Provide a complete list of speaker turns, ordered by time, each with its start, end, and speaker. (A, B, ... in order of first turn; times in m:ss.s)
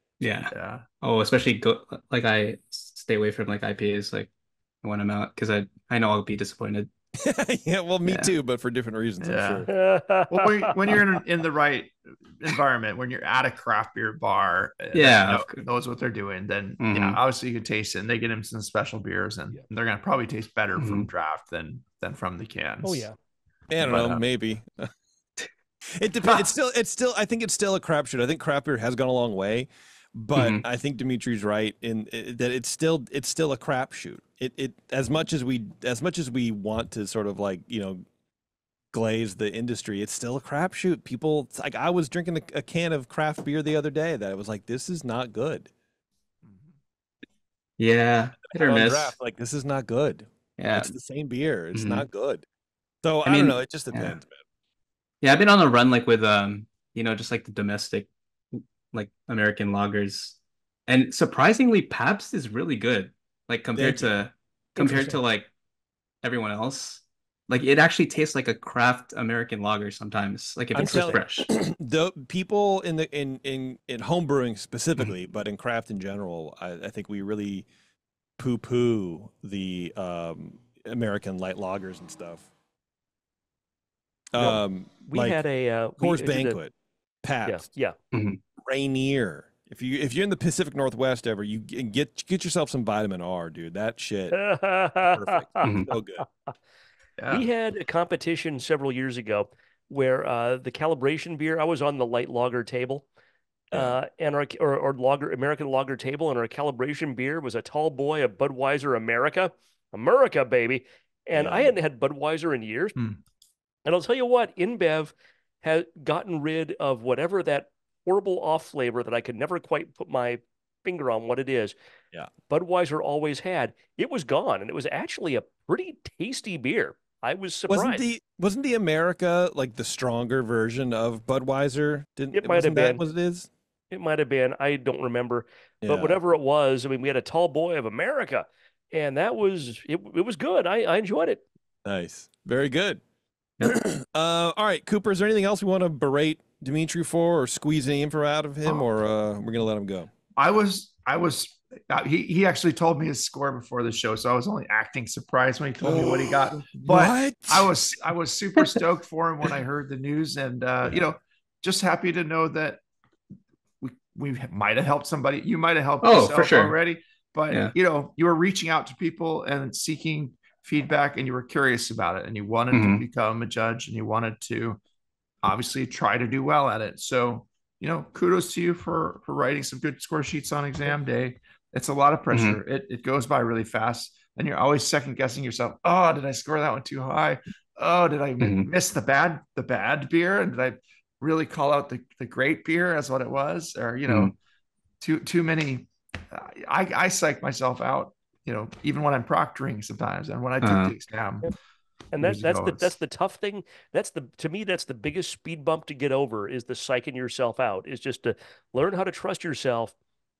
0:00.2-0:04.3 A
0:00.5-0:00.8 B
0:04.8-0:06.9 A
0:07.2-0:09.7 C
0:08.1-0:08.3 A
0:09.2-0:09.7 B
0:09.7-0:10.7 D
0:10.3-0:23.1 B
0:14.9-0:15.6 A
0:16.8-0:17.2 A
0:20.8-0:21.1 A
0:22.8-0:23.1 D
0:23.7-0:24.9 C
0:23.8-0:24.2 B
0:26.0-0:38.0 C
0:30.4-0:30.6 A
0:38.9-0:45.7 C
0:46.4-0:46.7 B
0:47.8-0:49.1 A
0:48.5-0:52.4 C
0:50.6-0:50.9 A
0:51.7-0:52.0 A
0:53.0-0:54.4 C
0:53.2-0:54.2 A
0:55.2-1:05.5 A
1:03.8-1:04.1 C
1:04.8-1:05.2 D
1:06.2-1:11.5 A
1:10.8-1:17.7 C
1:10.8-1:11.2 D
1:18.4-1:22.5 C
1:24.3-1:25.4 C
1:24.4-1:26.6 D
1:26.0-1:27.7 C
1:27.4-1:28.0 D
1:28.1-1:28.4 A
1:28.6-1:34.5 C
1:34.3-1:35.7 D
1:35.1-1:36.2 C
1:35.6-1:35.9 A
1:37.2-1:37.5 B
1:37.3-1:43.1 D
1:43.7-1:53.0 D
1:43.7-1:44.0 C
1:51.3-1:51.8 C
1:53.8-2:01.8 D
2:02.5-2:08.0 D
2:07.7-2:13.5 C
2:12.3-2:13.0 D
2:13.9-2:21.4 D
2:15.8-2:16.2 C
2:21.8-2:23.0 C
2:23.6-2:30.1 C
2:30.4-2:42.8 B
2:35.8-2:37.7 C
2:43.8-2:54.8 B
2:46.0-2:46.8 A
2:52.7-2:53.0 A
2:55.4-3:14.3 B
3:02.3-3:02.6 A
3:08.4-3:08.7 A
3:14.1-3:14.3 A
3:15.0-3:21.5 B
3:20.6-3:21.0 A
3:22.1-3:30.0 D
3:22.2-3:22.9 B